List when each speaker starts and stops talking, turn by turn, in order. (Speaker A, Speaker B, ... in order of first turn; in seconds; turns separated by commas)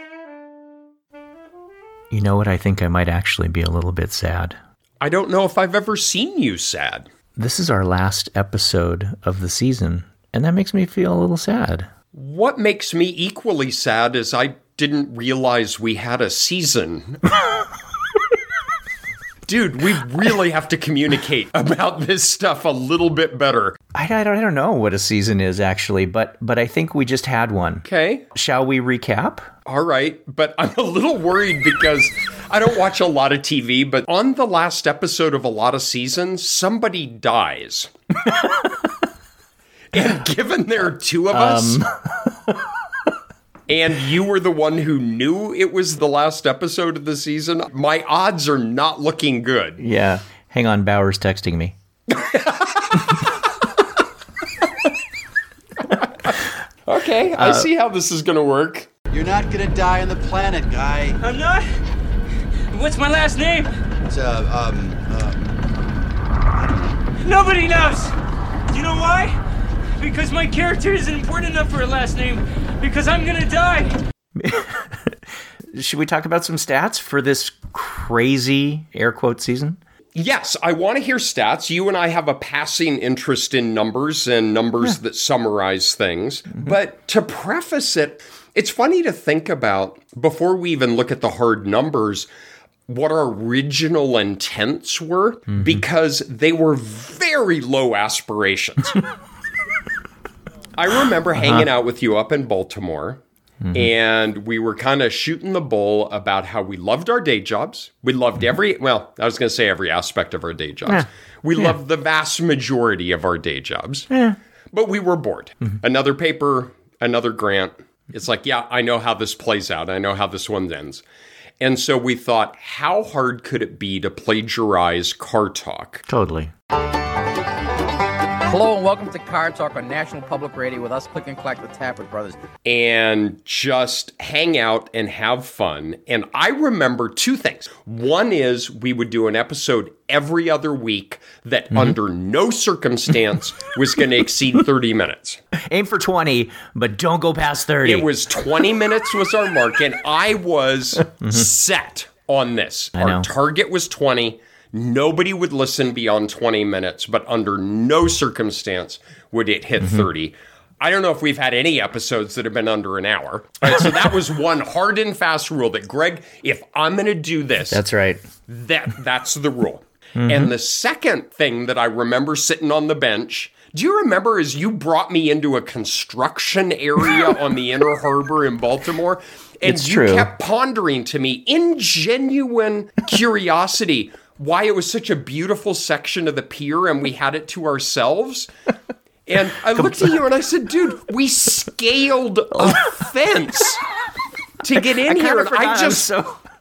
Speaker A: 2.1-4.6, Speaker B: 5.0-7.1, Speaker A: 7.3-11.9, Speaker B: 12.1-17.2, Speaker B: 19.4-23.8, Speaker A: 23.9-29.5, Speaker B: 27.8-28.2, Speaker B: 29.6-37.9, Speaker A: 38.3-38.7, Speaker B: 39.9-41.8, Speaker A: 41.3-42.6, Speaker B: 43.7-49.8, Speaker A: 49.8-51.8, Speaker B: 52.1-53.1, Speaker B: 56.9-58.9, Speaker A: 57.3-57.7, Speaker C: 59.1-61.2, Speaker D: 61.2-61.7, Speaker D: 62.7-63.7, Speaker C: 64.1-65.4, Speaker D: 67.2-68.1, Speaker D: 68.7-69.4, Speaker D: 70.0-74.0, Speaker A: 74.3-75.2, Speaker A: 75.7-79.8, Speaker B: 80.1-92.3, Speaker B: 92.9-99.0, Speaker B: 100.8-103.2, Speaker A: 101.4-101.6, Speaker A: 103.6-103.9, Speaker B: 103.7-114.1, Speaker A: 114.1-114.4, Speaker B: 114.7-121.0, Speaker B: 121.6-126.0, Speaker A: 126.1-126.5, Speaker E: 128.4-132.4, Speaker B: 132.6-145.4, Speaker A: 145.6-148.1, Speaker B: 147.8-167.8, Speaker A: 151.2-151.5, Speaker A: 152.9-153.3, Speaker A: 159.8-160.1, Speaker A: 167.7-168.2, Speaker B: 168.5-188.5, Speaker A: 170.2-170.5, Speaker A: 179.6-180.3, Speaker B: 189.3-193.8, Speaker B: 194.6-196.1, Speaker A: 194.8-196.4